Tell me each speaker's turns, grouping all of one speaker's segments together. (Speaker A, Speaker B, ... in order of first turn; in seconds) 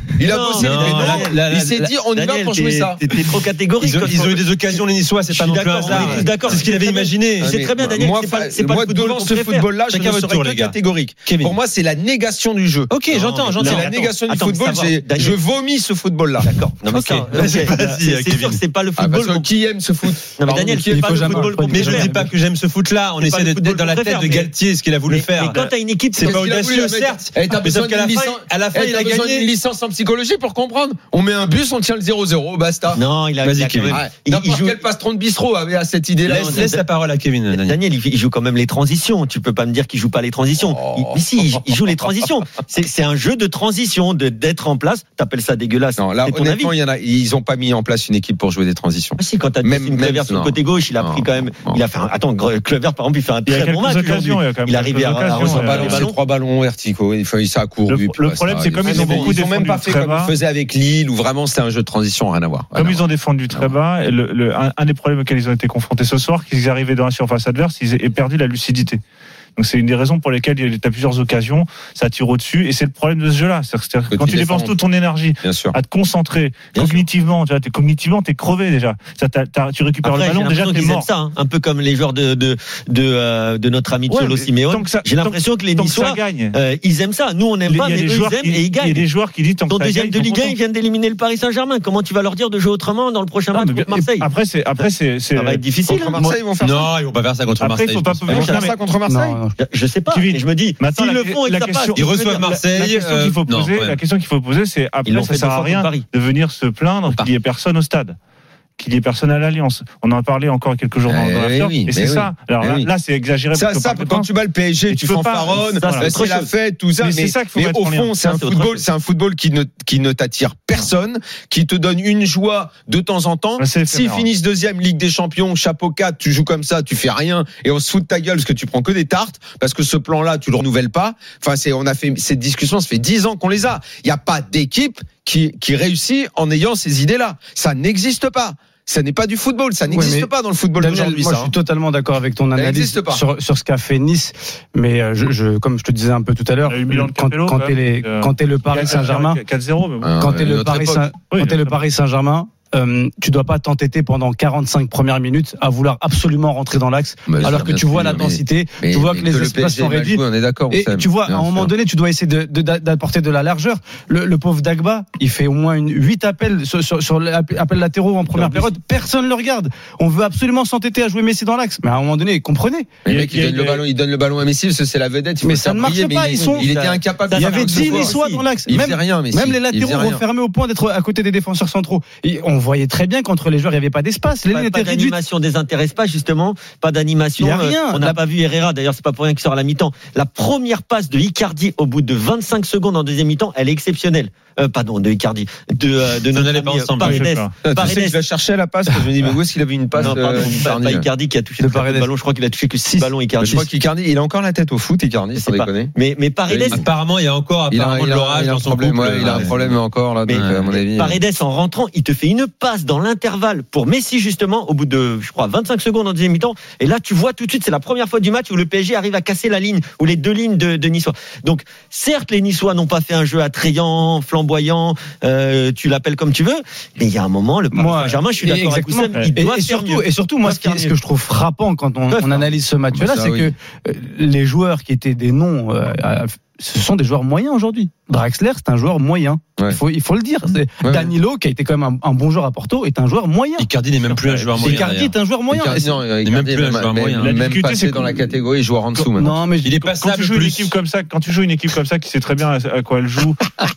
Speaker A: 0.2-3.0, 5.9-6.2, 7.4-12.9, 13.6-16.5, 18.9-21.4, 26.2-33.0, 33.9-36.7, 40.6-41.2, 46.0-51.8, 55.5-63.7, 74.1-74.8, 75.4-75.8, 95.9-96.9, 98.3-99.4, 111.0-112.9, 113.5-141.5, 142.5-143.2, 150.0-151.0, 157.3-161.7, 168.3-168.6, 173.0-180.2, 197.6-201.1, 203.4-205.9, 206.5-206.8, 207.7-211.2, 232.9-233.5, 240.8-241.1, 245.5-249.3
Speaker B: 0.3-4.8, 5.3-9.8, 13.1-15.4, 16.4-19.5, 20.4-22.2, 23.2-24.5, 25.1-26.4, 32.9-34.8, 36.3-36.9, 37.5-46.7, 49.2-56.1, 58.9-59.3, 76.8-77.0, 80.0-89.0, 89.7-94.3, 94.8-96.3, 98.3-98.7, 99.6-102.5, 105.0-106.0, 115.6-116.5, 118.2-118.8, 176.3-178.4, 184.5-198.2, 200.0-203.7, 205.3-206.8, 209.2-209.6, 210.2-230.9, 232.1-232.5
Speaker C: 0.5-2.0, 3.8-7.5, 9.9-10.8, 11.3-11.5, 12.9-14.2, 16.9-18.6, 21.6-25.6, 26.1-29.5, 33.4-34.0, 36.2-37.8, 96.6-98.6, 101.9-104.0, 196.2-197.3, 206.7-209.7, 210.3-210.8, 243.6-245.1, 246.2-247.4, 249.6-250.8
Speaker D: 13.6-13.9, 53.5-56.0, 57.9-60.3, 62.8-69.0, 69.6-81.1, 84.1-86.5, 87.7-90.5, 93.5-95.6, 97.6-98.7, 100.1-108.2, 108.8-114.3, 114.9-116.1, 117.0-118.1, 123.6-124.3, 146.7-150.1, 151.3-151.8, 173.1-173.8, 197.0-197.5, 244.0-244.7, 247.2-248.4, 249.9-253.4
Speaker E: 20.8-22.3, 99.1-99.5, 139.9-149.4, 150.2-172.9, 175.4-176.7, 177.2-185.2, 187.4-188.2, 201.6-202.1, 227.7-243.7, 244.6-246.0, 249.2-249.8